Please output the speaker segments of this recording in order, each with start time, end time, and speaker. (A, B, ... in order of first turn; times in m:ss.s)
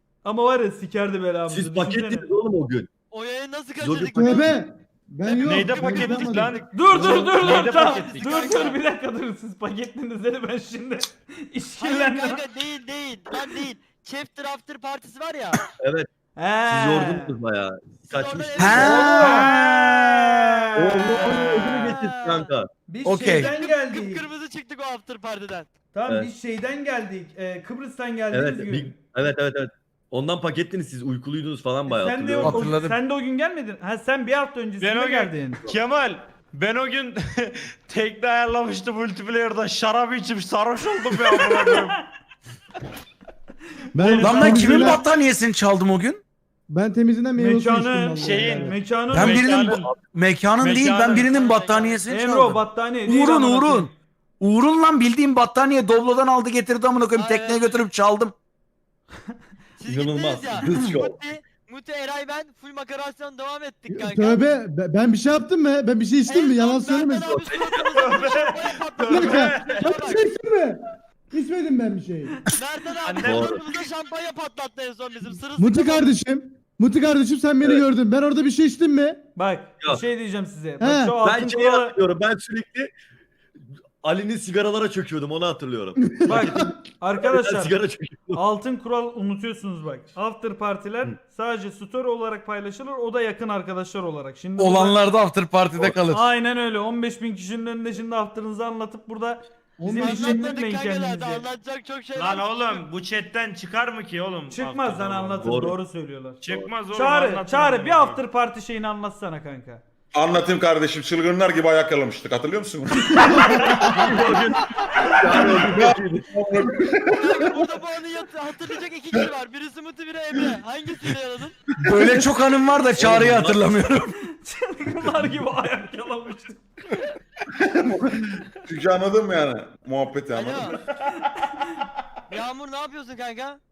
0:00.2-0:02.2 A
0:01.5-0:02.9 B
0:03.1-0:04.5 C
0:03.8-0:04.5 B
0:04.1-0:06.6 D
0:05.3-0:06.2 C
0:05.3-0:08.5 E
0:06.7-0:12.4 A
0:07.2-0:08.8 C
0:11.8-0:15.6 C
0:15.8-0:16.1 B
0:16.4-0:17.3 A
0:16.7-0:19.4 B
0:18.1-0:19.5 C
0:18.6-0:20.3 F
0:18.8-0:21.3 A
0:20.7-0:22.7 B
0:21.1-0:22.5 C
0:22.9-0:24.2 A
0:23.0-0:23.5 F
0:23.2-0:25.7 C
0:25.9-0:28.9 A
0:28.3-0:32.7 B
0:31.9-0:35.7 A
0:32.4-0:33.0 F
0:34.8-0:42.0 E
0:43.9-0:45.0 D
0:43.9-0:45.0 A
0:44.0-0:44.9 E
0:44.2-0:46.2 F
0:46.7-0:48.8 D
0:47.4-0:49.4 A
0:48.2-0:49.9 E
0:49.1-0:58.3 F
0:50.6-0:51.4 E
0:51.3-0:52.0 C
0:52.1-0:53.9 A
0:57.1-0:57.8 C
0:59.8-1:04.5 C
0:59.9-1:01.2 B
1:03.9-1:07.3 D
1:06.3-1:10.3 C
1:07.2-1:07.8 B
1:07.9-1:09.9 E
1:09.1-1:12.3 D
1:12.5-1:16.1 C
1:13.0-1:13.6 E
1:13.2-1:13.6 B
1:15.6-1:19.2 D
1:19.3-1:21.9 A
1:20.8-1:21.2 D
1:21.2-1:22.9 B
1:24.0-1:28.4 B
1:26.2-1:27.8 A
1:28.4-1:35.0 A
1:34.6-1:36.2 F
1:36.1-1:41.4 A
1:39.8-1:40.4 D
1:40.0-1:42.8 C
1:42.1-1:45.7 E
1:44.5-1:49.8 A
1:45.4-1:45.8 B
1:46.4-1:48.2 E
1:46.4-1:46.7 B
1:50.1-1:53.8 G
1:53.8-1:56.3 B
1:55.3-1:57.2 G
1:57.1-2:01.6 C
2:01.8-2:04.1 F
2:02.9-2:03.8 B
2:04.3-2:06.6 A
2:07.6-2:08.1 G
2:08.7-2:10.7 G
2:10.3-2:10.8 C
2:11.3-2:11.6 A
2:12.3-2:13.6 C